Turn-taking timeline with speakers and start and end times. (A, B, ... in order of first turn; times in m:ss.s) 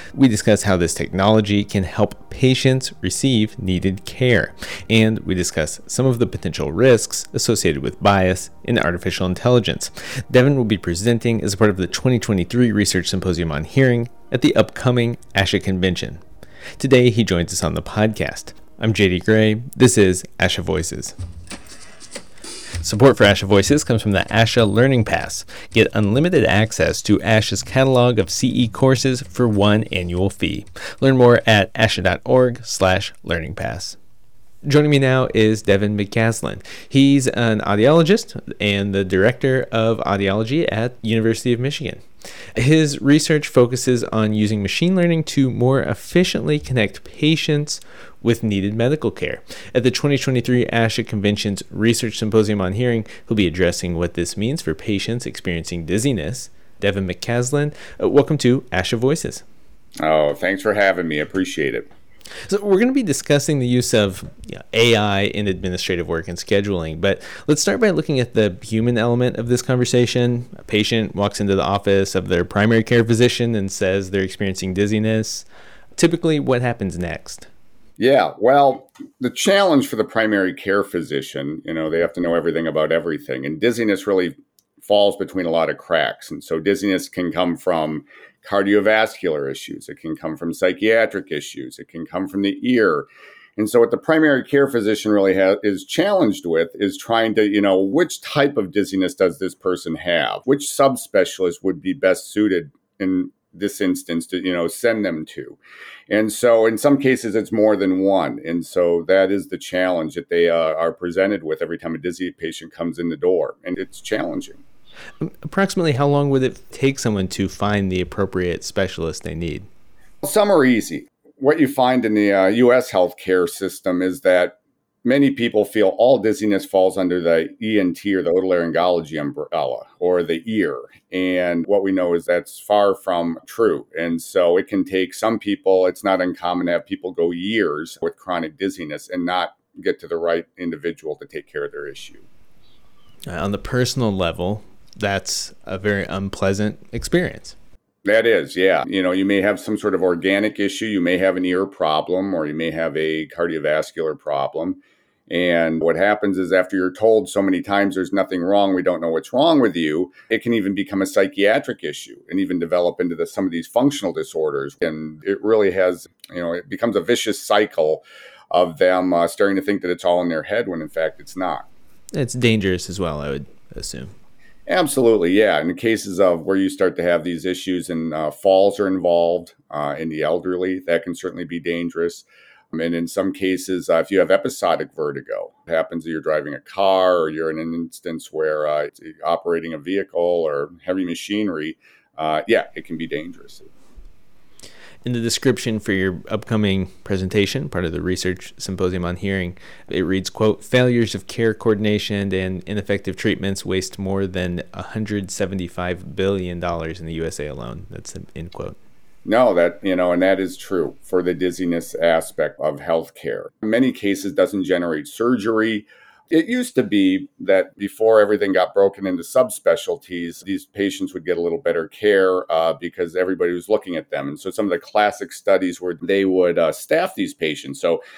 0:00.1-0:16.2 A
0:16.8-0:21.2 A
0:22.8-0:34.0 A
0:34.7-0:42.0 A
0:42.6-0:59.4 A
1:00.0-1:01.9 B
1:02.5-1:15.5 A
1:16.0-1:17.5 A
1:18.0-1:45.6 B
1:46.1-1:54.6 B
1:55.2-1:59.7 A
2:00.2-2:22.3 B
2:23.3-2:27.6 A
2:28.0-2:51.7 B
2:52.1-2:54.1 A
2:54.7-3:13.7 B
3:15.0-3:28.8 A
3:29.2-3:48.0 B